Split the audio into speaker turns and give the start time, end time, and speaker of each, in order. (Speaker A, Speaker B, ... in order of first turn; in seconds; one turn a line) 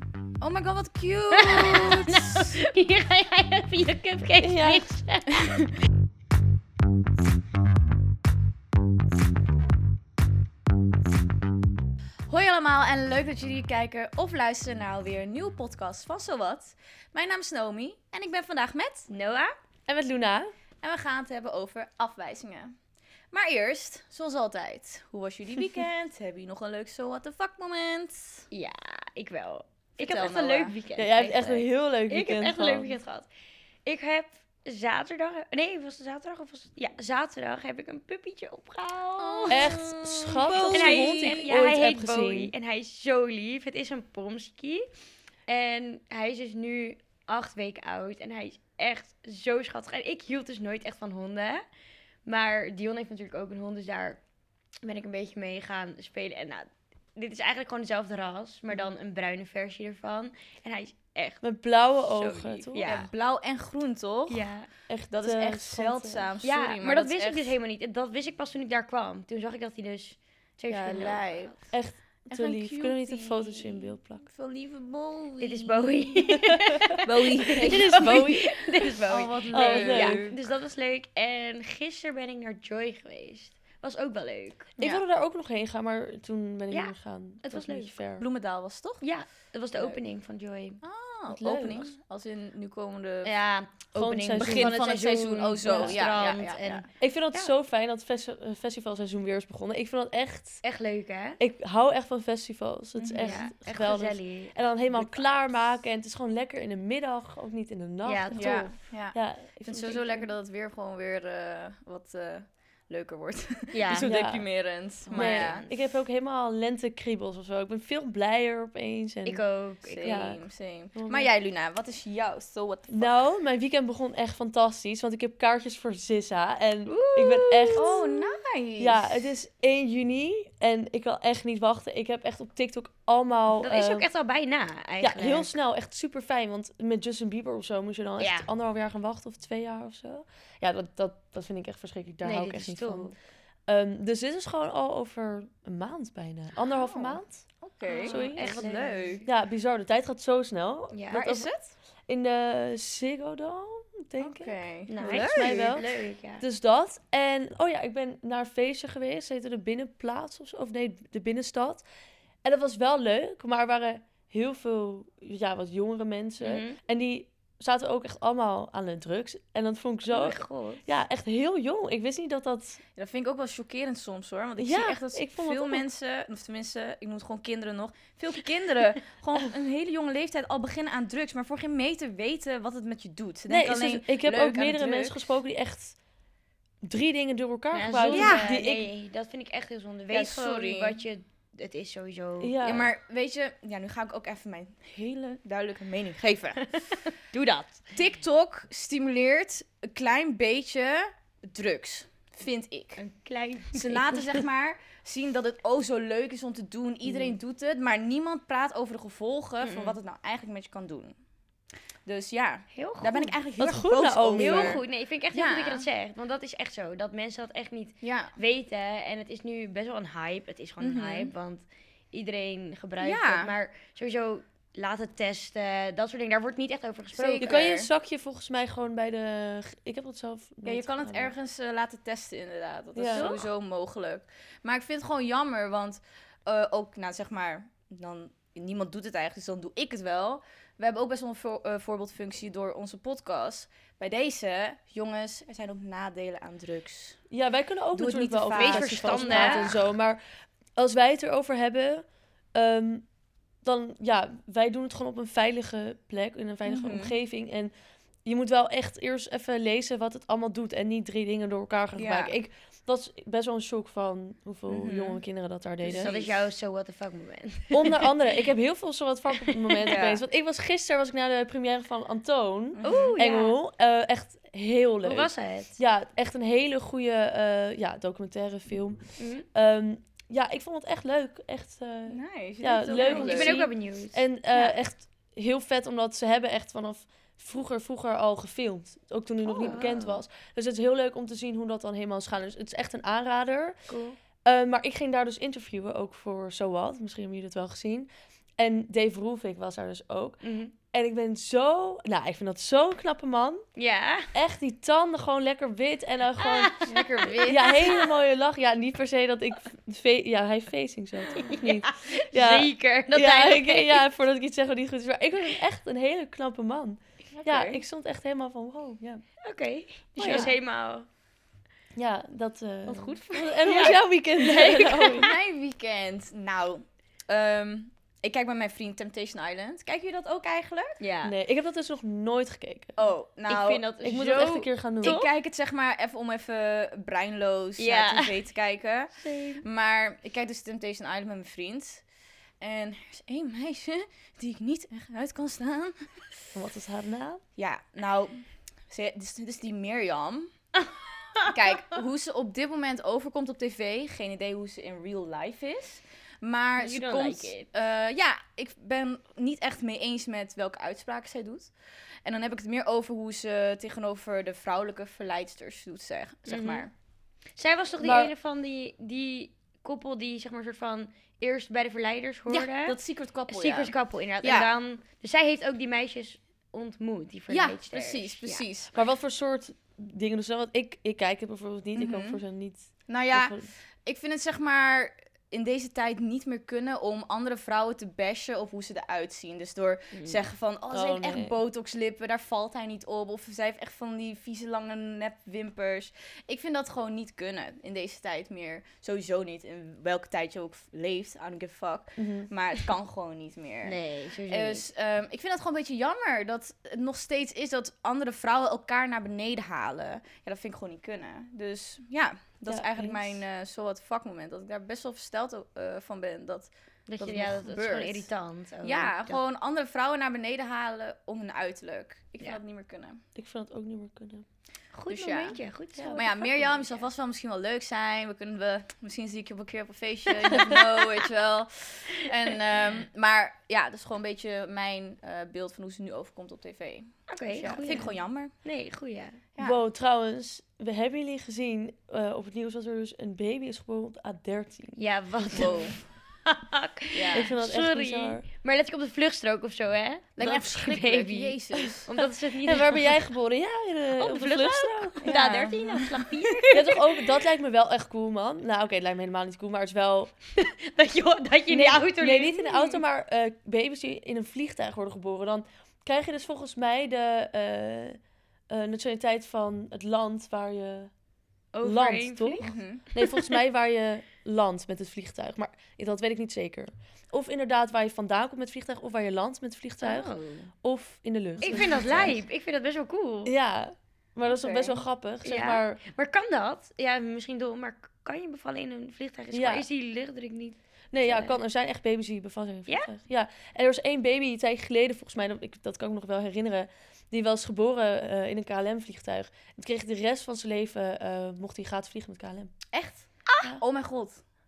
Speaker A: 0.4-2.6
Speaker B: 1.3-5.5
Speaker C: 4.4-4.9
Speaker A: 5.4-5.6
Speaker A: 12.3-19.1
Speaker B: 19.1-19.5
Speaker C: 19.9-20.5
Speaker A: 20.8-22.7
Speaker A: 23.3-28.5
Speaker B: 28.5-33.3
Speaker A: 30.0-30.8
Speaker C: 31.0-33.0
Speaker B: 33.9-39.7
Speaker A: 39.2-41.4
Speaker C: 39.5-42.5
Speaker B: 40.7-44.8
Speaker B: 45.5-51.6
Speaker B: 52.2-54.2
Speaker B: 54.8-61.4
Speaker C: 61.4-63.0
Speaker B: 62.0-63.1
Speaker A: 62.8-64.5
Speaker B: 64.3-64.7
Speaker C: 64.9-66.3
Speaker A: 65.1-67.5
Speaker B: 66.4-71.6
Speaker A: 70.7-71.5
Speaker C: 71.7-74.2
Speaker A: 72.3-76.1
Speaker B: 75.4-84.8
Speaker C: 76.5-76.8
Speaker A: 77.0-78.3
Speaker C: 77.6-78.7
Speaker A: 79.0-80.4
Speaker C: 79.5-80.3
Speaker C: 84.8-88.2
Speaker B: 86.7-87.9
Speaker A: 88.2-89.0
Speaker B: 89.0-90.8
Speaker A: 90.8-93.3
Speaker C: 91.3-91.8
Speaker B: 91.5-91.9
Speaker B: 93.2-97.5
Speaker C: 93.9-94.8
Speaker A: 94.3-96.8
Speaker C: 95.6-96.0
Speaker C: 97.0-100.6
Speaker B: 100.6-101.4
Speaker C: 101.4-110.3
Speaker A: 103.0-103.5
Speaker B: 103.2-104.5
Speaker B: 108.0-108.7
Speaker A: 108.3-115.6
Speaker B: 113.7-114.1
Speaker C: 113.9-114.4
Speaker B: 115.1-115.7
Speaker C: 115.1-119.4
Speaker B: 119.2-120.2
Speaker A: 119.8-123.1
Speaker C: 120.0-120.4
Speaker C: 120.9-121.3
Speaker C: 122.9-134.1
Speaker B: 126.9-128.0
Speaker A: 127.7-129.2
Speaker B: 133.6-135.6
Speaker C: 135.0-143.1
Speaker B: 138.2-138.5
Speaker B: 142.2-143.1
Speaker C: 143.7-147.4
Speaker A: 146.7-149.3
Speaker B: 147.8-149.2
Speaker C: 148.0-148.6
Speaker C: 149.2-151.5
Speaker B: 150.9-151.2
Speaker A: 151.1-151.7
Speaker C: 152.1-161.8
Speaker A: 154.2-155.8
Speaker B: 154.9-156.4
Speaker C: 162.4-172.8
Speaker B: 166.4-166.8
Speaker B: 170.1-170.8
Speaker A: 172.9-185.2
Speaker C: 174.6-175.8
Speaker C: 183.5-185.9
Speaker C: 186.8-188.9
Speaker B: 187.7-192.6
Speaker A: 188.1-188.5
Speaker A: 190.1-191.0
Speaker C: 192.4-192.9
Speaker A: 192.6-196.7
Speaker B: 196.6-197.8
Speaker A: 197.9-203.0
Speaker B: 203.0-204.4
Speaker A: 203.7-211.1
Speaker B: 209.6-209.9
Speaker A: 212.1-214.8
Speaker B: 212.7-213.3
Speaker C: 213.6-214.8
Speaker B: 214.3-227.5
Speaker A: 215.3-215.8
Speaker A: 218.0-218.4
Speaker A: 220.8-221.3
Speaker A: 223.0-223.5
Speaker A: 227.2-227.9
Speaker C: 227.4-231.3
Speaker A: 230.6-247.2
Speaker C: 232.9-233.3
Speaker B: 233.1-233.5
Speaker C: 247.3-250.2
Speaker A: 247.9-249.8
Speaker B: 248.5-249.7
Speaker C: 250.8-253.1
Speaker C: 253.6-257.7
Speaker A: 256.7-257.1
Speaker C: 258.2-266.1
Speaker A: 261.9-262.3
Speaker A: 264.7-265.2
Speaker A: 265.8-266.4
Speaker B: 265.9-268.1
Speaker C: 267.7-279.0
Speaker A: 269.9-270.2
Speaker A: 272.8-273.2
Speaker B: 272.8-273.6
Speaker B: 275.0-275.8
Speaker B: 279.2-279.4
Speaker C: 279.5-293.8
Speaker A: 282.1-283.6
Speaker B: 283.0-284.7
Speaker B: 289.4-290.2
Speaker B: 293.9-294.2
Speaker C: 294.4-303.6
Speaker B: 300.4-300.7
Speaker B: 303.8-304.3
Speaker C: 304.3-319.2
Speaker B: 306.4-308.0
Speaker A: 306.9-307.8
Speaker B: 311.3-314.0
Speaker A: 317.3-317.8
Speaker B: 319.4-321.1
Speaker A: 320.1-320.5
Speaker C: 320.2-320.5
Speaker C: 321.9-325.3
Speaker B: 322.9-325.3
Speaker A: 323.6-324.0
Speaker A: 325.1-331.0
Speaker B: 331.0-331.3
Speaker C: 331.2-333.1
Speaker A: 333.0-333.8
Speaker B: 333.5-335.3
Speaker C: 334.0-335.2
Speaker A: 335.0-342.0
Speaker B: 337.8-338.4
Speaker B: 339.2-339.6
Speaker A: 342.6-346.1
Speaker C: 346.5-347.4
Speaker A: 347.6-350.5
Speaker B: 350.8-351.9
Speaker A: 351.4-361.7
Speaker B: 356.8-357.7
Speaker A: 362.2-366.9
Speaker B: 366.5-366.9
Speaker B: 367.6-373.0
Speaker C: 368.0-368.3
Speaker A: 372.5-374.7
Speaker B: 373.5-378.6
Speaker A: 377.5-378.9
Speaker C: 378.9-383.7
Speaker A: 381.9-382.4
Speaker A: 383.1-404.0
Speaker B: 390.1-390.4
Speaker C: 390.9-391.6
Speaker C: 402.2-402.5
Speaker B: 403.8-404.8
Speaker A: 404.5-418.3
Speaker C: 412.7-413.4
Speaker B: 417.1-419.4
Speaker A: 418.8-423.2
Speaker C: 423.4-424.4
Speaker B: 424.9-427.0
Speaker A: 425.1-438.5
Speaker B: 437.3-439.4
Speaker C: 439.6-445.0
Speaker B: 444.9-453.1
Speaker A: 445.5-445.9
Speaker A: 447.1-447.5
Speaker C: 447.3-448.4
Speaker A: 450.4-452.2
Speaker C: 452.6-455.2
Speaker B: 454.2-457.0
Speaker A: 455.2-456.8
Speaker C: 456.7-460.3
Speaker B: 460.6-463.0
Speaker C: 461.7-471.1
Speaker B: 471.7-473.3
Speaker C: 471.8-482.4
Speaker A: 472.6-473.0
Speaker B: 480.0-480.7
Speaker B: 481.6-483.5
Speaker C: 483.4-486.0
Speaker A: 484.6-485.0
Speaker B: 485.4-491.5
Speaker C: 489.5-489.9
Speaker C: 491.1-502.8
Speaker A: 502.9-504.4